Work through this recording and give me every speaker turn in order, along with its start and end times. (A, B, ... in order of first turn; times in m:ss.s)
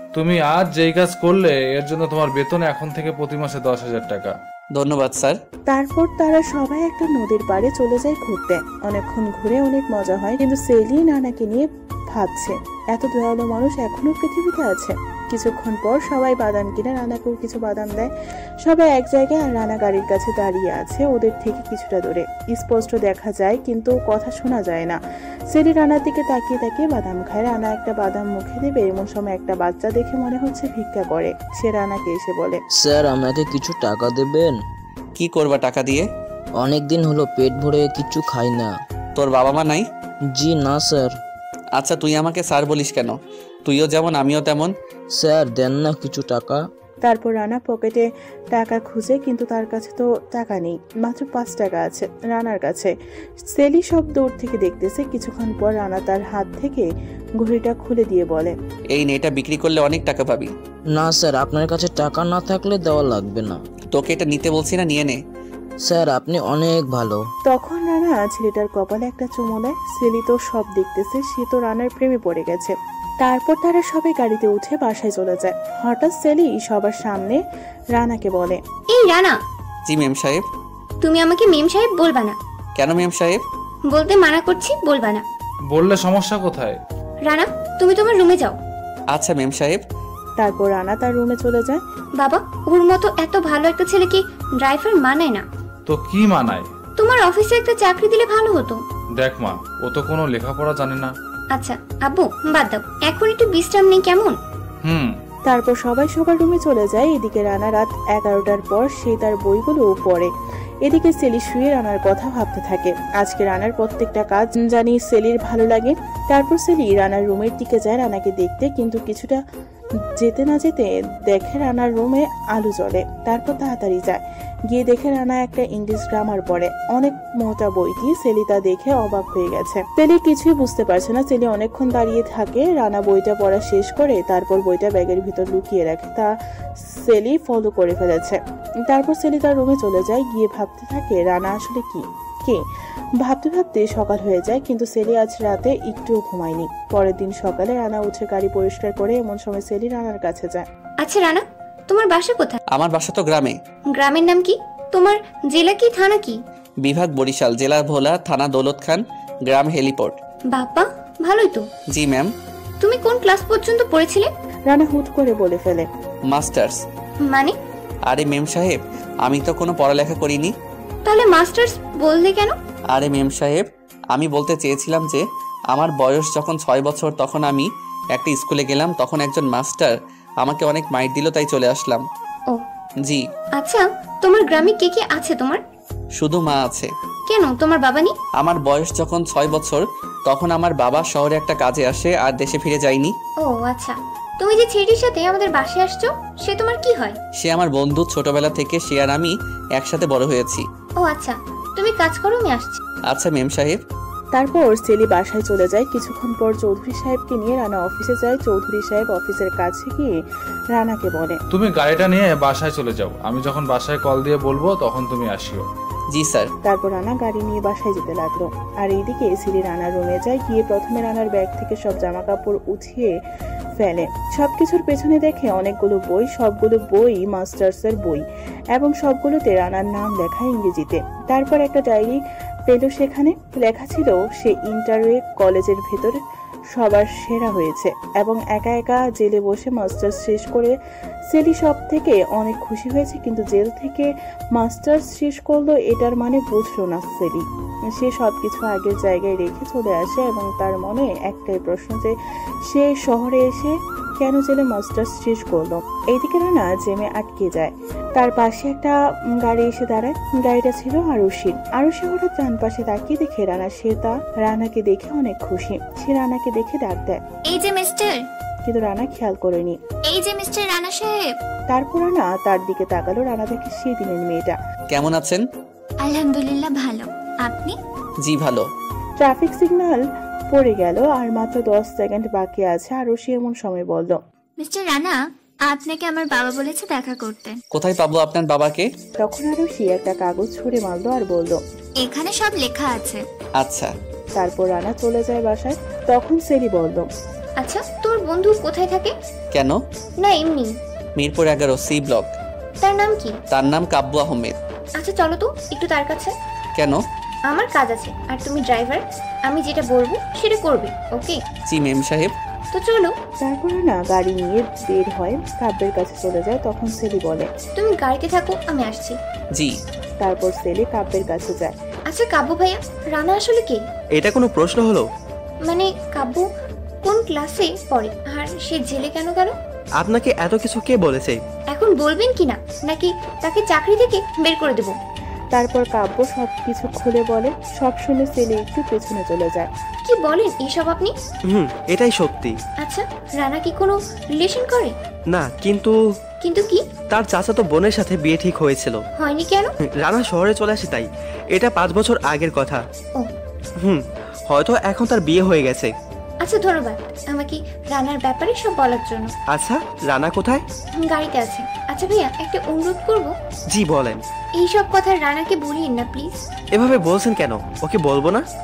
0:00.2-0:04.4 A
0:04.7-0:05.4 B
0:05.7-0:32.6 C
0:32.8-0:34.6 D
0:35.2-0:36.1 B
0:36.6-0:38.8 D
0:39.2-0:39.9 B
0:40.4-0:41.2 D
0:41.8-0:44.7 B
0:45.2-0:46.6 D
0:47.0-0:52.9 C
0:53.5-0:58.6 C
0:58.9-1:00.5 B
1:01.0-1:03.6 D
1:03.9-1:05.2 B
1:05.9-1:07.2 D
1:07.5-1:17.4 C
1:18.0-1:18.6 C
1:18.9-1:19.4 E
1:19.9-1:20.4 B
1:21.0-1:22.4 E
1:22.8-1:23.4 B
1:23.9-1:25.2 E
1:25.7-1:26.8 A
1:27.2-1:28.6 E
1:29.1-1:29.8 B
1:30.4-1:31.8 C
1:32.2-1:35.5 E
1:35.9-1:36.7 A
1:37.0-1:38.8 E
1:39.2-1:41.1 A
1:41.5-1:44.4 E
1:44.8-1:45.2 A
1:45.5-1:50.3 C
1:50.8-1:59.4 C
2:00.2-2:22.6 C
2:23.2-2:30.7 C
2:31.0-2:32.6 E
2:32.7-2:33.6 B
2:33.9-2:36.4 E
2:36.8-2:40.2 B
2:40.5-2:41.7 E
2:41.9-2:42.3 B
2:42.8-2:44.3 E
2:44.7-2:45.9 C
2:46.3-2:46.8 B
2:47.2-2:47.6 E
2:48.1-2:50.5 B
2:51.1-2:52.6 E
2:52.9-3:02.0 B
3:03.6-3:05.6 E
3:06.2-3:06.9 B
3:07.3-3:08.2 E
3:08.4-3:13.1 B
3:13.4-3:17.2 E
3:17.4-3:20.6 B
3:21.0-3:22.8 E
3:23.1-3:23.8 B
3:24.3-3:30.2 C
3:30.7-3:31.4 C
3:31.5-3:35.7 A
3:36.1-3:36.5 B
3:36.6-3:43.2 C
3:43.8-4:00.8 C
4:01.3-4:12.2 C
4:12.7-4:27.2 C
4:27.5-4:28.2 F
4:28.6-4:29.8 C
4:30.1-4:31.3 F
4:31.7-4:34.6 C
4:34.9-4:35.4 B
4:36.0-4:37.8 F
4:38.2-4:38.7 B
4:39.2-4:44.2 C
4:44.6-4:47.6 F
4:47.7-4:48.9 B
4:49.2-4:51.6 C
4:52.0-4:53.2 F
4:53.6-4:53.9 B
4:54.4-4:57.1 C
4:57.6-4:59.1 E
4:59.5-4:59.8 B
5:00.2-5:00.8 E
5:01.2-5:02.3 B
5:02.8-5:03.4 E
5:03.5-5:04.6 B
5:05.0-5:06.4 E
5:06.8-5:07.0 B
5:07.5-5:11.4 E
5:11.7-5:12.3 B
5:12.7-5:13.2 E
5:13.4-5:17.5 C
5:17.8-5:19.2 E
5:20.2-5:21.8 C
5:22.1-5:23.8 E
5:24.1-5:25.1 G
5:25.7-5:26.5 E
5:27.0-5:29.6 E
5:30.0-5:31.4 G
5:31.7-5:35.0 E
5:35.5-5:39.7 C
5:40.0-5:41.2 E
5:41.5-5:42.5 G
5:42.8-5:45.0 E
5:45.3-5:46.0 G
5:46.4-5:46.9 E
5:47.1-5:49.0 G
5:49.2-5:49.7 E
5:49.8-5:52.8 G
5:53.8-5:55.9 G
5:56.4-5:59.3 E
5:59.5-6:00.6 G
6:01.0-6:03.4 E
6:03.7-6:04.2 G
6:04.6-6:06.3 E
6:06.7-6:08.4 G